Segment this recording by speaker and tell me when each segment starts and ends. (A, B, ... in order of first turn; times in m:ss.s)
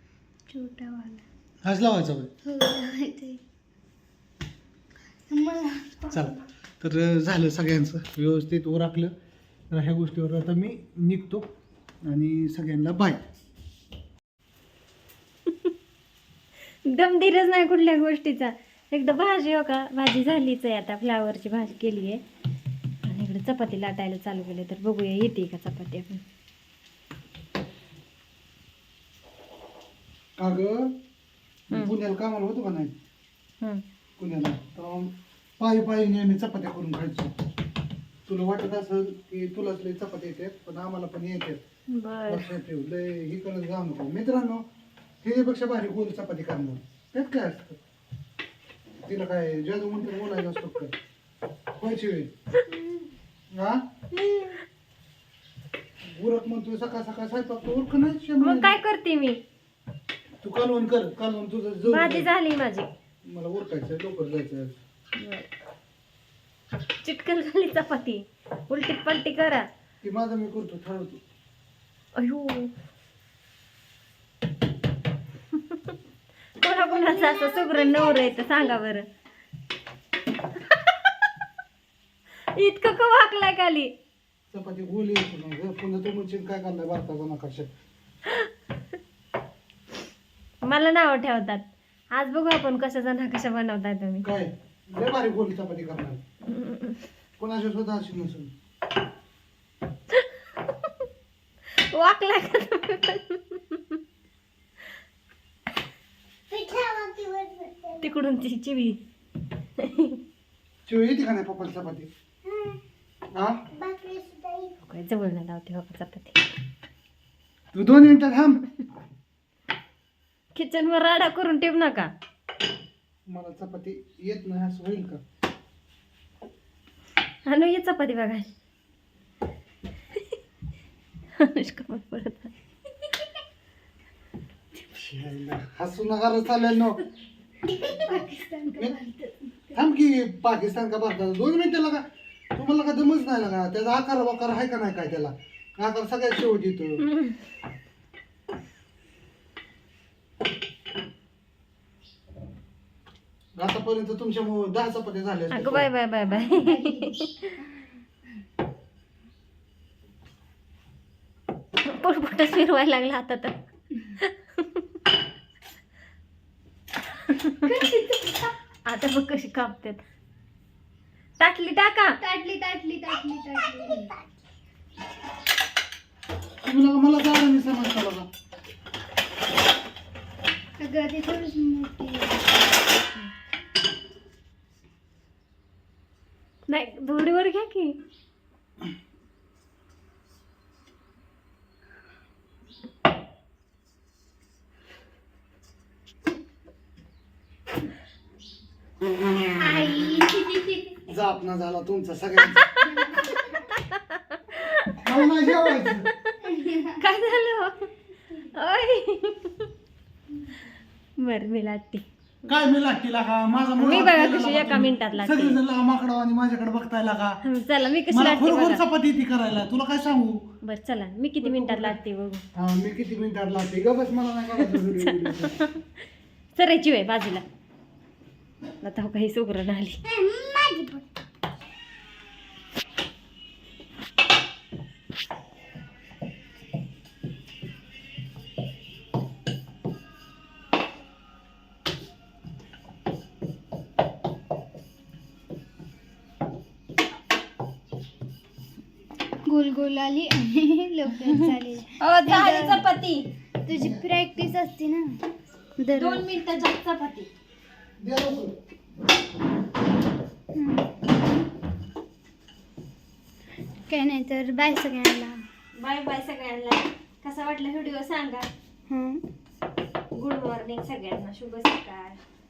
0:00.5-0:01.2 A
0:01.6-0:02.3 B
0:02.4-0:03.4 A
0:05.3-0:06.2 A
0:06.1-0:09.1 B
0:09.7-0:11.5 B
0:12.0-0:13.2 B
0:16.9-0:22.2 C
0:23.0-0:26.2 C
0:30.4-0:31.0 B
0:31.7-0:32.9 B
0:34.2-0:37.3 B
0:38.3-0:41.6 B
0:41.9-0:42.5 C
0:42.3-0:44.6 B
0:45.2-0:47.8 B
0:49.0-0:50.9 B
0:51.8-0:52.3 B
0:53.5-0:53.8 B
0:54.1-0:54.6 A
0:56.1-0:58.8 B
0:58.4-0:59.4 C
1:00.4-1:02.3 B
1:01.9-1:02.9 C
1:03.2-1:04.8 B
1:05.2-1:05.5 C
1:07.0-1:09.7 C
1:10.0-1:11.2 B
1:12.2-1:12.7 C
1:16.6-1:19.1 C
1:16.6-1:18.8 A
1:22.6-1:23.9 C
1:24.5-1:27.7 B
1:30.6-1:34.3 C
1:34.2-1:36.2 B
1:36.5-1:37.0 C
1:37.4-1:38.5 B
1:41.7-1:43.8 C
1:46.5-1:48.0 A
1:48.0-1:49.0 C
1:49.8-1:50.2 C
1:50.9-1:52.1 B
1:52.5-1:52.8 A
1:53.3-1:53.7 B
1:53.8-1:54.7 A
1:54.9-1:56.4 C
1:57.7-1:58.6 B
2:00.6-2:02.1 C
2:03.3-2:05.2 B
2:07.5-2:08.5 C
2:11.4-2:13.3 C
2:14.9-2:17.0 B
2:17.6-2:19.8 A
2:19.7-2:27.1 B
2:27.1-2:27.4 C
2:33.6-2:35.9 B
2:35.5-2:37.6 C
2:36.3-2:37.2 A
2:41.8-2:43.6 C
2:44.2-2:44.8 C
2:47.3-2:47.8 C
2:47.7-2:48.5 A
2:48.9-2:50.0 C
2:51.4-2:52.2 C
2:52.2-2:54.2 A
2:56.6-2:58.3 B
3:00.8-3:02.5 A
3:06.7-3:08.0 C
3:19.5-3:21.0 C
3:21.1-3:22.7 B
3:22.4-3:23.4 C
3:22.8-3:23.6 A
3:23.9-3:27.9 C
3:25.0-3:26.1 B
3:28.4-3:29.7 C
3:31.2-3:32.5 C
3:32.5-3:37.4 B
3:33.8-3:35.6 C
3:37.4-3:38.8 C
3:38.1-3:40.5 B
3:40.6-3:42.4 C
3:41.4-3:42.0 B
3:42.6-3:45.6 B
3:44.6-3:45.8 C
3:46.6-3:47.4 C
3:48.8-3:50.0 C
3:50.0-3:51.0 A
4:09.5-4:12.8 A
4:11.2-4:13.3 C
4:13.6-4:15.2 A
4:13.8-4:14.0 B
4:15.8-4:16.3 A
4:16.0-4:17.3 C
4:18.0-4:18.6 B
4:20.6-4:21.0 A
4:23.9-4:25.4 A
4:25.8-4:28.5 C
4:28.9-4:29.2 A
4:30.1-4:32.2 C